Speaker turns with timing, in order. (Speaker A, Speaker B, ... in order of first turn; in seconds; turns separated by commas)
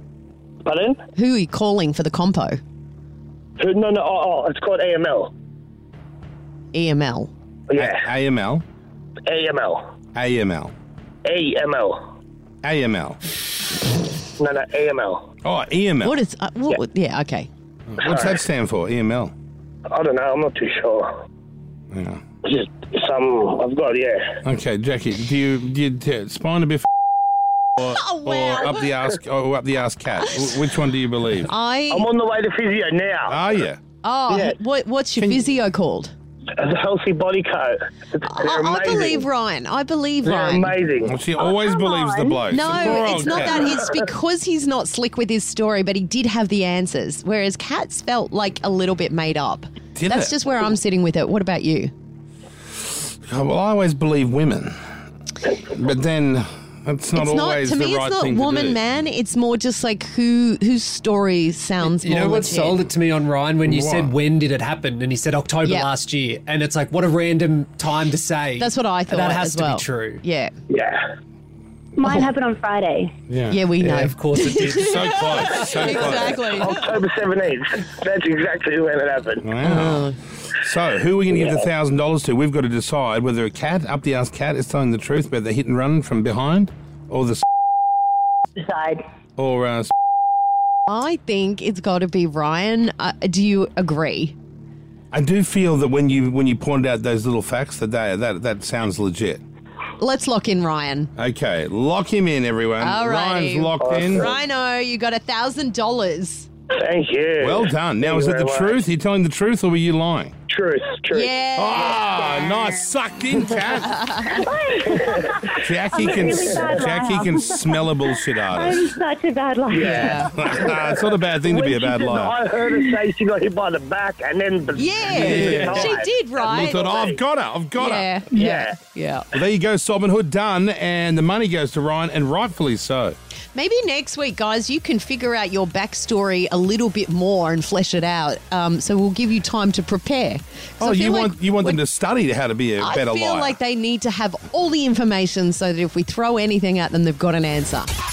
Speaker A: 0.7-1.0, Speaker B: 1.1-2.6, Speaker A: 3.6-5.3, Speaker B: 6.7-7.3, Speaker A: 7.7-8.1, Speaker C: 7.8-8.6, Speaker A: 9.3-9.8, Speaker C: 10.2-10.7, Speaker A: 11.2-12.0, Speaker C: 12.6-13.2, Speaker A: 14.4-15.2, Speaker C: 15.4-16.2, Speaker B: 16.0-17.5, Speaker C: 17.9-19.3, Speaker A: 18.0-18.4, Speaker A: 19.9-21.1, Speaker C: 21.9-22.2, Speaker A: 22.4-24.4, Speaker C: 24.4-26.9, Speaker B: 27.8-28.8, Speaker C: 28.2-31.5, Speaker B: 31.5-32.1, Speaker A: 31.9-33.4, Speaker C: 33.3-33.8, Speaker B: 34.0-36.1, Speaker A: 34.3-34.6, Speaker A: 36.6-39.3, Speaker B: 38.2-40.8, Speaker A: 40.2-41.1, Speaker C: 41.0-43.8, Speaker D: 41.4-43.4, Speaker B: 42.5-51.9, Speaker C: 50.0-50.4, Speaker C: 53.1-54.8, Speaker C: 55.6-58.8, Speaker B: 57.1-62.8, Speaker E: 61.8-70.2, Speaker C: 63.7-64.1, Speaker B: 65.6-65.9, Speaker B: 68.6-70.5, Speaker A: 70.7-71.0, Speaker D: 72.0-73.1, Speaker C: 73.3-73.6, Speaker B: 73.5-76.8, Speaker E: 73.8-76.2, Speaker C: 74.7-76.4, Speaker A: 76.4-79.5, Speaker C: 79.4-87.4, Speaker B: 79.7-80.2, Speaker A: 81.3-81.7, Speaker D: 88.6-89.0, Speaker C: 89.4-89.9, Speaker B: 90.9-94.3, Speaker C: 95.1-99.4, Speaker B: 100.0-101.1, Speaker C: 101.2-104.3, Speaker B: 102.8-106.5, Speaker A: 103.8-104.4, Speaker A: 106.8-108.8, Speaker C: 107.4-110.3, Speaker A: 110.5-112.2, Speaker B: 111.1-112.2, Speaker C: 111.6-114.3, Speaker B: 113.9-114.4, Speaker D: 114.2-120.8, Speaker A: 114.7-117.0, Speaker C: 115.6-118.9, Speaker A: 119.7-127.2, Speaker B: 119.8-120.4, Speaker C: 120.3-122.3, Speaker B: 124.8-126.8, Speaker C: 125.1-128.2, Speaker B: 127.8-129.3, Speaker A: 128.3-128.8, Speaker C: 129.3-133.2, Speaker B: 133.5-141.8, Speaker C: 140.8-143.6, Speaker B: 142.8-147.9